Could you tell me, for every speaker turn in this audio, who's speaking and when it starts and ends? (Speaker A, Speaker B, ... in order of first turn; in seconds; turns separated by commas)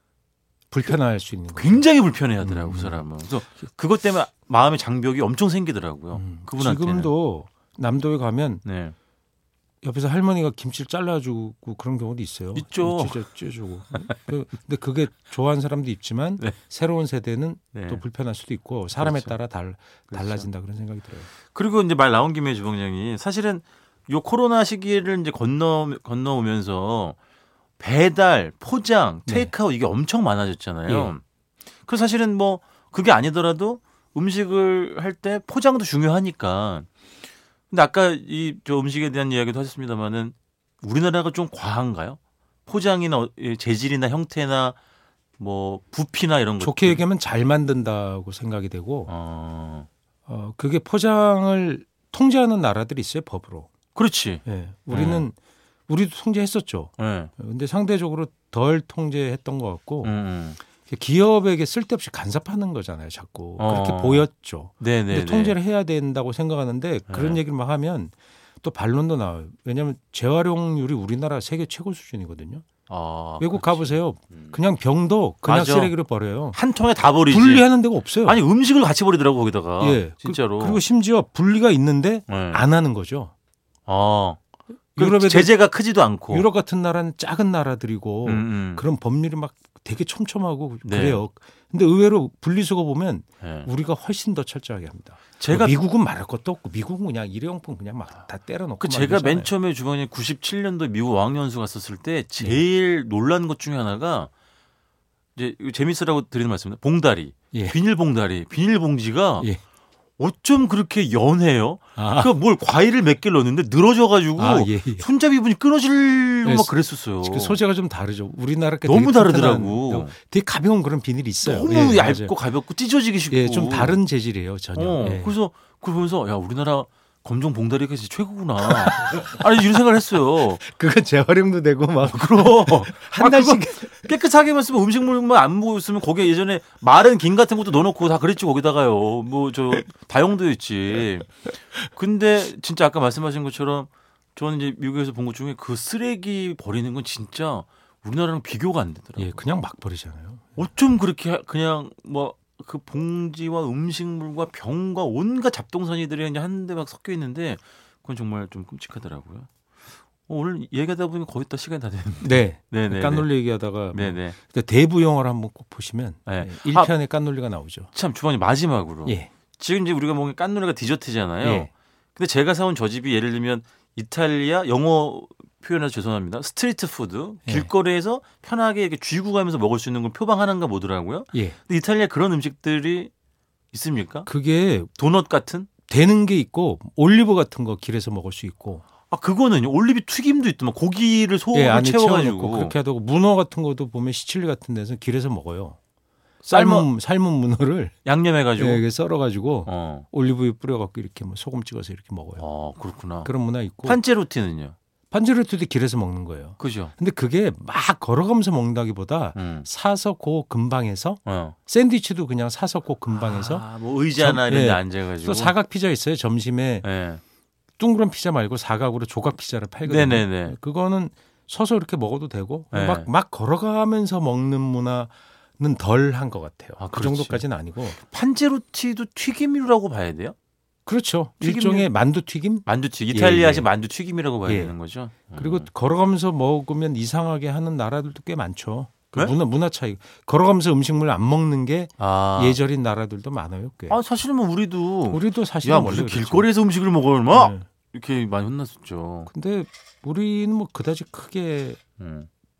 Speaker A: 0.7-1.9, Speaker B: 1.5-7.1, Speaker A: 2.4-3.0, Speaker A: 6.1-8.6, Speaker B: 8.6-9.0, Speaker A: 9.8-21.3, Speaker B: 12.5-13.2, Speaker B: 17.8-18.0, Speaker B: 19.0-19.4, Speaker B: 20.1-20.5, Speaker B: 21.5-27.2, Speaker B: 27.8-31.2, Speaker A: 29.2-29.5, Speaker A: 30.9-31.1, Speaker B: 31.9-36.9, Speaker B: 37.7-44.8, Speaker B: 45.4-47.0, Speaker A: 46.6-49.1, Speaker B: 49.1-49.9, Speaker A: 50.2-53.7, Speaker B: 54.0-55.2, Speaker A: 54.5-55.4, Speaker A: 55.9-60.1, Speaker B: 57.0-57.3, Speaker B: 60.0-60.6, Speaker A: 60.7-72.7, Speaker B: 63.6-64.3, Speaker B: 64.8-65.6, Speaker B: 67.1-67.4, Speaker B: 72.9-74.5, Speaker A: 73.4-76.6, Speaker B: 75.5-76.0, Speaker B: 76.5-77.7, Speaker A: 77.2-78.4, Speaker B: 78.2-80.8, Speaker A: 79.8-83.3, Speaker B: 82.3-82.6, Speaker B: 83.9-84.4, Speaker A: 85.0-85.6, Speaker B: 85.0-86.5, Speaker A: 86.3-99.5, Speaker B: 88.2-88.8, Speaker B: 90.8-91.2, Speaker B: 93.4-93.7, Speaker B: 95.4-95.8, Speaker B: 98.8-104.3, Speaker B: 105.4-109.5, Speaker A: 107.5-107.8, Speaker B: 110.2-117.6, Speaker A: 112.0-112.3, Speaker A: 114.4-115.1, Speaker A: 116.4-122.3, Speaker B: 118.8-120.1, Speaker B: 121.4-124.0, Speaker A: 123.3-125.4, Speaker B: 124.8-130.6, Speaker A: 128.6-129.4, Speaker A: 130.5-134.1, Speaker B: 132.0-149.4, Speaker A: 149.2-150.6, Speaker B: 150.6-159.5, Speaker B: 160.3-164.4, Speaker A: 162.2-167.9, Speaker B: 166.3-166.9, Speaker B: 167.9-183.1, Speaker A: 169.1-169.3, Speaker A: 171.4-171.7, Speaker A: 177.4-177.7, Speaker A: 181.3-181.6, Speaker B: 183.7-184.3, Speaker A: 184.2-184.9, Speaker B: 184.9-185.7, Speaker A: 185.9-188.8, Speaker B: 189.1-192.8, Speaker A: 191.5-195.8, Speaker B: 196.4-196.9, Speaker A: 196.5-198.0, Speaker B: 198.1-198.8, Speaker A: 198.6-202.4, Speaker B: 199.6-200.1, Speaker B: 202.4-203.3, Speaker A: 203.2-204.0, Speaker B: 203.8-204.8, Speaker A: 205.1-216.9, Speaker B: 206.6-206.9, Speaker B: 209.3-209.7, Speaker B: 211.2-211.6, Speaker B: 213.1-215.6, Speaker B: 216.8-217.2, Speaker A: 217.8-228.0, Speaker B: 219.8-220.6, Speaker B: 222.7-223.1, Speaker B: 226.8-230.4, Speaker A: 230.9-233.7, Speaker B: 231.4-231.9, Speaker B: 232.6-235.7, Speaker A: 234.5-234.8, Speaker A: 235.3-244.0, Speaker B: 242.0-242.6, Speaker B: 243.9-249.3, Speaker A: 245.1-246.5, Speaker A: 247.3-247.7, Speaker A: 249.3-251.8, Speaker B: 252.0-252.3